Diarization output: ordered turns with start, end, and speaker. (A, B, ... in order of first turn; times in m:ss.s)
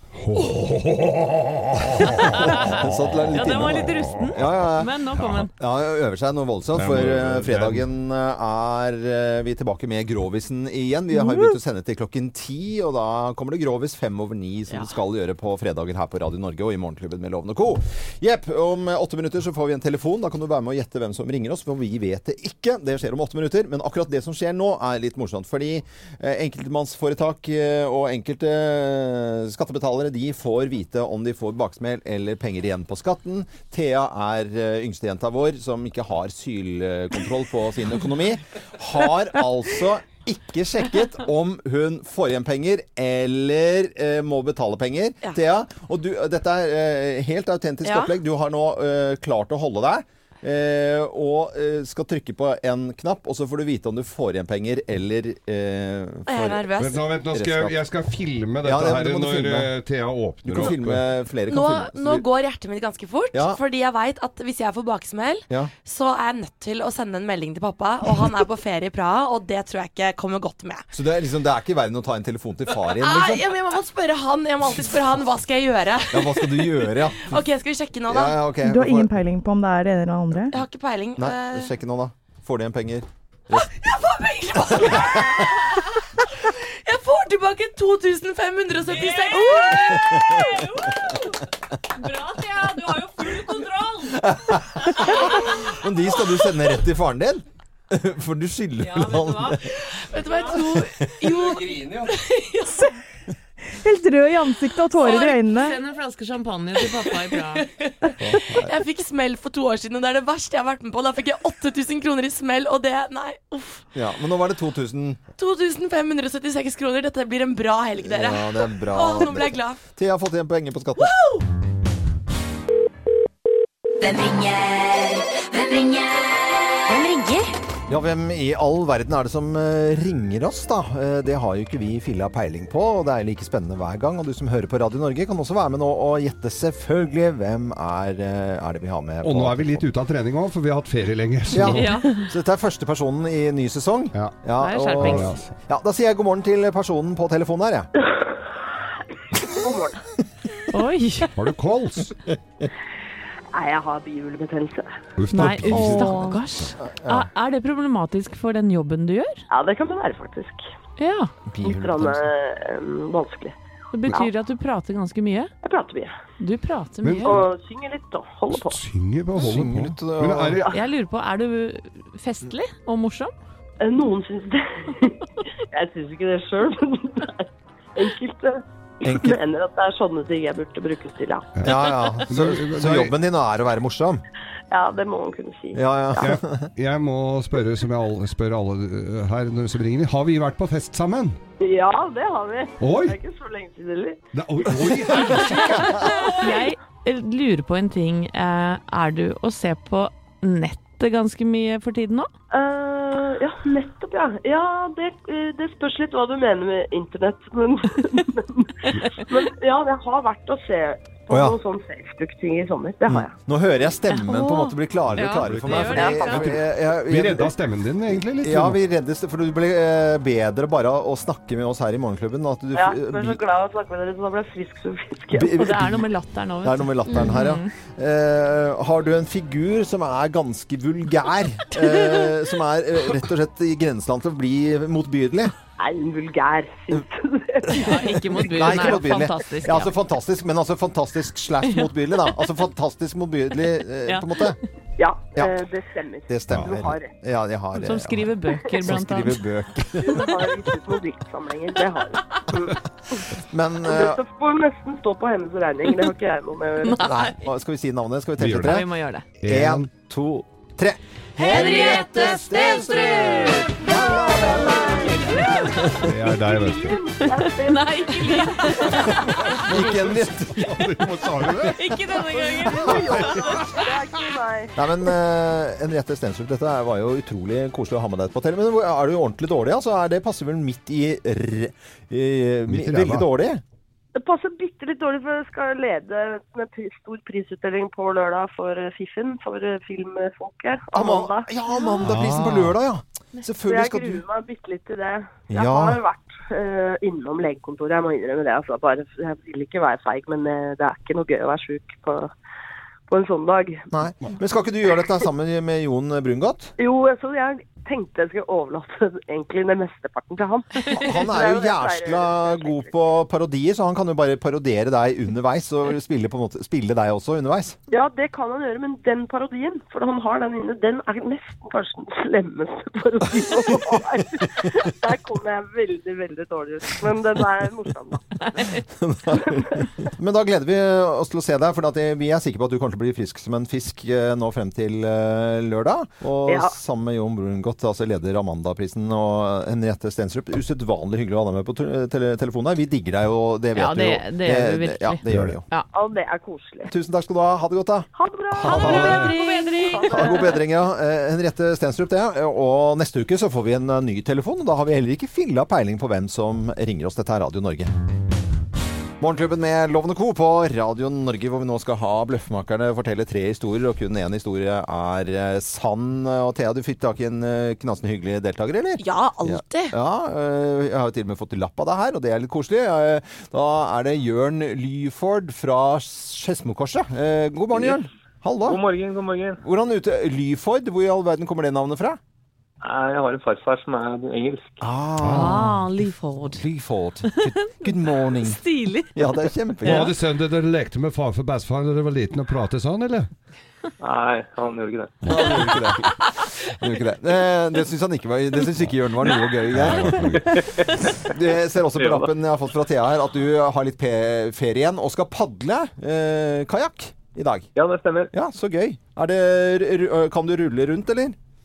0:00.2-0:05.5 A
0:02.0-0:04.9 B
0:02.1-0:05.5 C
0:05.6-0:56.7 B
0:06.8-0:07.9 A
0:47.8-0:48.1 D
0:56.3-0:57.0 D
0:56.8-1:01.0 A
0:57.3-0:57.8 B
0:58.6-0:59.7 B
1:00.4-1:02.2 B
1:01.5-1:10.8 D
1:03.3-1:03.6 B
1:10.9-1:13.4 B
1:12.7-1:18.4 D
1:16.1-1:17.4 B
1:18.1-1:19.1 B
1:18.6-1:20.6 E
1:20.5-1:21.7 D
1:21.2-1:23.7 B
1:23.5-1:31.0 D
1:24.8-1:25.4 B
1:28.9-1:31.3 C
1:32.0-1:35.2 C
1:34.1-1:39.6 B
1:38.8-1:39.6 C
1:39.6-1:42.9 D
1:40.5-1:42.1 B
1:43.7-1:45.8 E
1:45.0-1:45.3 D
1:45.0-1:47.6 C
1:46.8-1:53.8 D
1:48.2-1:48.7 B
1:54.0-1:55.2 B
1:55.4-1:59.8 D
1:58.0-2:01.1 B
2:01.0-2:01.4 D
2:04.0-2:07.5 D
2:07.9-2:19.8 B
2:19.2-2:22.0 A
2:21.5-2:27.9 B
2:21.7-2:22.3 C
2:24.6-2:25.4 C
2:25.0-2:25.4 A
2:29.5-2:30.0 F
2:30.7-2:31.3 C
2:31.4-2:32.1 A
2:33.5-2:34.9 F
2:35.2-2:36.3 A
2:35.3-2:39.4 C
2:35.7-2:36.3 B
2:36.8-2:37.3 B
2:39.5-2:40.6 F
2:41.0-2:41.3 C
2:41.5-2:42.2 B
2:41.6-2:43.6 F
2:43.9-2:45.5 C
2:45.6-2:46.1 F
2:46.4-2:47.4 C
2:47.0-2:47.4 A
2:47.2-2:48.8 F
2:48.5-2:50.8 A
2:49.4-2:50.7 B
2:50.7-2:53.3 C
2:53.8-3:01.5 F
2:59.0-2:59.4 B
3:01.6-3:03.1 A
3:01.6-3:04.2 B
3:04.7-3:05.8 F
3:05.7-3:06.7 B
3:06.2-3:11.4 A
3:11.6-3:14.2 F
3:12.8-3:13.2 A
3:14.3-3:16.1 A
3:14.9-3:15.4 F
3:16.4-3:22.3 C
3:22.5-3:33.3 F
3:31.3-3:31.6 B
3:33.1-3:37.6 B
3:34.1-3:36.6 C
3:35.2-3:38.8 A
3:36.0-3:36.5 F
3:38.1-3:43.4 B
3:42.8-3:45.6 F
3:45.3-3:46.1 B
3:45.6-3:47.7 C
3:46.6-3:55.5 B
3:55.8-3:58.8 F
3:57.7-4:04.6 B
3:57.7-3:59.9 C
4:04.1-4:04.5 C
4:05.0-4:07.1 F
4:06.3-4:10.2 B
4:06.5-4:06.9 A
4:07.7-4:09.5 C
4:10.0-4:12.4 F
4:13.4-4:14.2 B
4:13.8-4:17.0 F
4:16.8-4:17.3 C
4:17.0-4:18.9 B
4:18.4-4:18.8 A
4:18.6-4:19.3 C
4:19.4-4:19.9 A
4:19.5-4:26.1 B
4:21.4-4:25.9 C
4:21.5-4:21.8 F
4:23.9-4:29.6 F
4:26.0-4:27.0 A
4:27.3-4:29.3 C
4:28.9-4:30.9 B
4:29.4-4:31.9 A
4:31.4-4:31.7 B
4:31.6-4:33.8 C
4:32.1-4:34.8 F
4:32.6-4:33.5 B
4:34.8-4:43.6 B
4:42.7-4:43.3 A
4:44.2-4:51.5 F
4:50.9-4:54.2 B
4:52.0-4:52.8 A
4:53.6-5:02.3 F
4:55.5-4:56.0 B
5:03.1-5:03.9 F
5:03.9-5:06.7 B
5:06.8-5:12.9 F
5:10.9-5:17.8 B
5:17.9-5:28.6 F
5:23.5-5:24.0 B
5:28.4-5:28.8 C
5:28.9-5:45.6 B
5:29.3-5:29.9 F
5:36.5-5:36.7 F
5:43.8-5:45.9 C
5:45.3-5:45.6 A
5:45.9-5:46.9 F
5:46.9-5:49.3 B
5:48.2-5:50.6 F
5:48.6-5:50.5 C
5:50.1-5:57.9 B
5:59.2-6:18.8 B
6:09.0-6:10.0 D
6:18.6-6:19.6 G
6:19.6-6:22.2 B
6:22.8-6:24.8 G
6:24.8-6:25.7 B
6:25.2-6:25.8 A
6:25.2-6:26.6 C
6:26.6-6:28.6 B
6:27.3-6:30.1 C
6:29.1-6:30.1 B
6:29.8-6:33.3 A
6:34.0-6:35.4 G
6:35.2-6:35.9 A
6:35.3-6:36.2 B
6:36.7-6:40.5 B
6:39.7-6:40.6 A
6:40.5-6:40.9 G
6:41.0-6:47.7 B
6:42.0-6:42.3 G
6:47.8-6:48.3 G
6:48.3-6:51.4 B